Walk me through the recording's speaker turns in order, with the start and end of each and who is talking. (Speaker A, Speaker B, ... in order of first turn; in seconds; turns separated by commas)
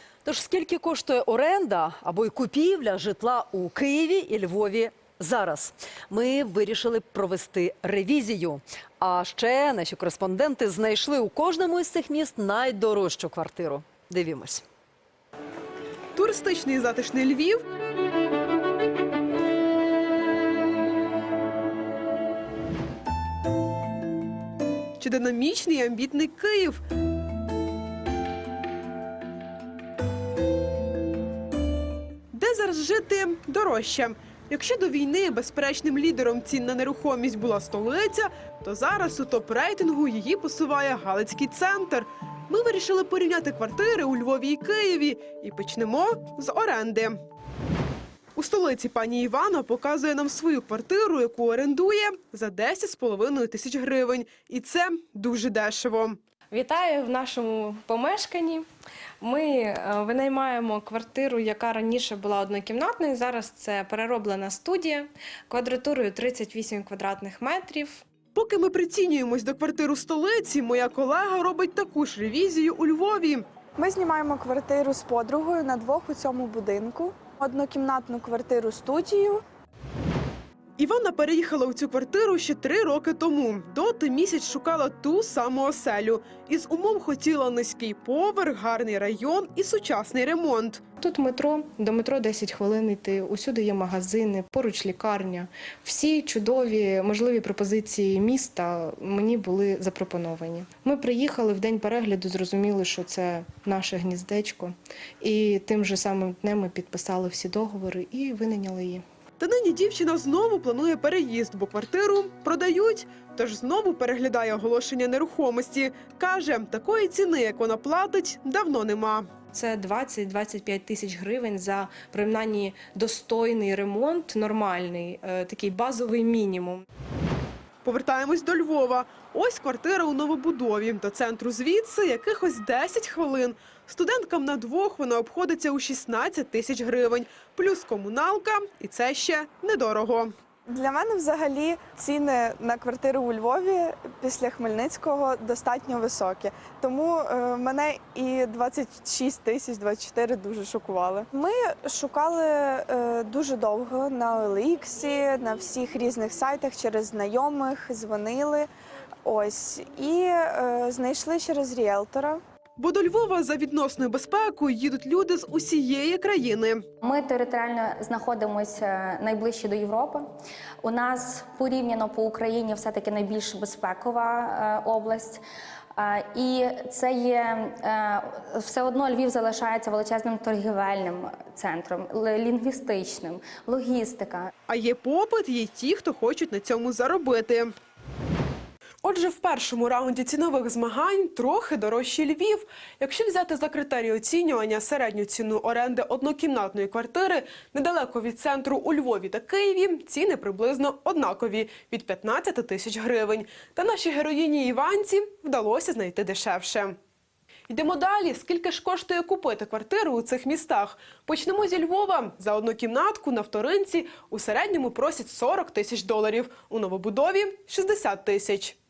Speaker A: 0.2-14.6, Speaker B: 16.2-17.6, Speaker B: 25.0-26.8, Speaker B: 32.3-47.2, Speaker B: 48.4-56.2, Speaker C: 56.5-58.6, Speaker C: 59.2-68.0, Speaker B: 68.3-73.5, Speaker D: 73.8-79.4, Speaker B: 80.8-90.8, Speaker C: 91.0-109.0, Speaker B: 109.4-119.3, Speaker C: 119.5-126.8, Speaker B: 127.8-140.3, Speaker D: 140.7-158.7, Speaker D: 159.2-162.4, Speaker B: 162.8-166.8, Speaker E: 167.0-170.2, Speaker E: 170.8-175.4, Speaker E: 176.0-184.5, Speaker B: 184.7-187.7, Speaker B: 189.0-207.0, Speaker B: 207.7-218.8